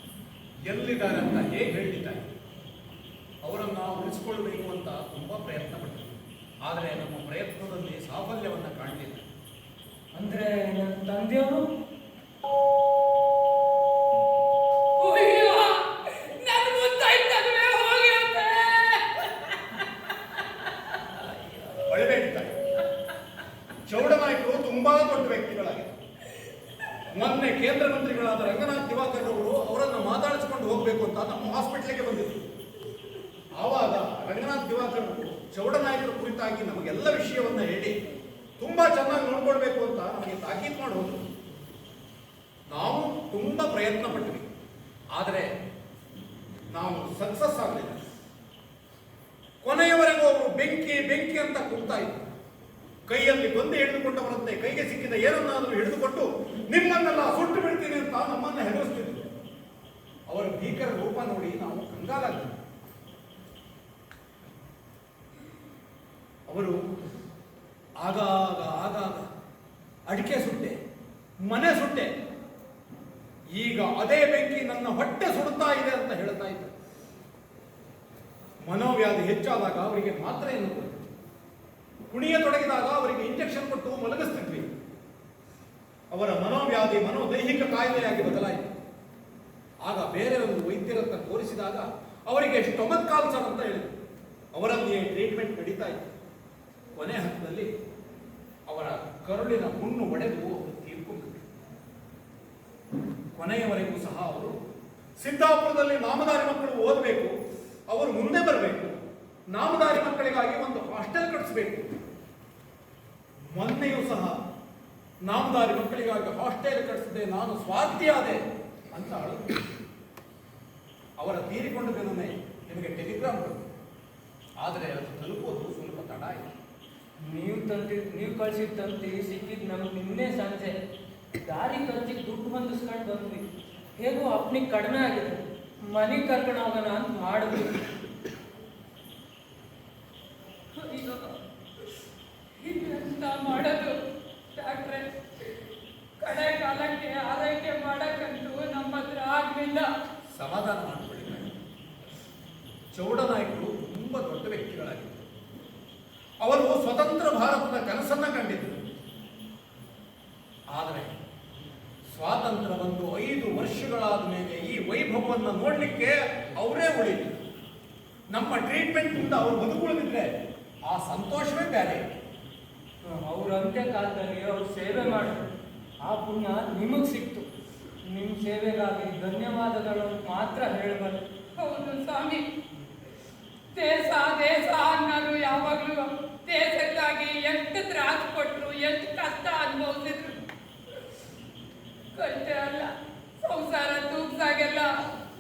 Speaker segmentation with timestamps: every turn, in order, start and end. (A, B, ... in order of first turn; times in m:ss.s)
0:00.7-0:02.3 A
0:03.4-0:09.3 A
0:10.1-0:11.7 B
0:15.0-0:19.0 C
0:21.7-0:22.6 A
0:23.9-0:26.0 A
0:27.1-0:32.4 A
0:33.6-0:38.0 A
0:38.6-0:41.2 A
0:42.7-0:44.5 A
0:45.1-0:45.5 A
0:46.7-0:48.0 A
0:49.6-0:52.2 A
0:53.1-0:59.2 A
1:00.3-1:02.5 A
1:06.5-1:06.8 A
1:08.0-1:09.2 A
1:10.1-1:10.8 A
1:11.5-1:12.1 A
1:13.6-1:16.7 A
1:18.6-1:21.0 A
1:22.1-1:24.7 A
1:26.1-1:28.8 A
1:29.8-1:33.9 A
1:34.5-1:36.1 A
1:37.0-1:37.7 A
1:38.7-1:41.5 A
1:43.4-1:44.5 A
1:45.2-1:47.3 A
1:47.9-1:49.0 A
1:49.5-1:51.9 A
1:53.5-1:54.4 A
1:55.2-1:58.4 A
1:58.9-1:59.5 A
2:01.2-2:03.6 A
2:04.6-2:06.4 A
2:07.2-2:10.8 B
2:11.4-2:13.4 B
2:14.0-2:17.8 B
2:20.8-2:21.2 B
2:22.6-2:23.9 C
2:22.8-2:23.7 B
2:24.6-2:25.0 C
2:26.2-2:29.9 C
2:30.3-2:31.5 A
2:32.9-2:35.2 A
2:36.4-2:38.8 A
2:40.7-2:41.1 A
2:42.1-2:47.4 A
2:48.3-2:50.3 A
2:50.9-2:52.1 A
2:53.0-2:55.5 B
2:56.0-2:57.5 B
2:58.1-3:01.2 B
3:01.6-3:02.4 C
3:03.7-3:10.4 C
3:12.2-3:12.9 C
3:13.4-3:14.9 C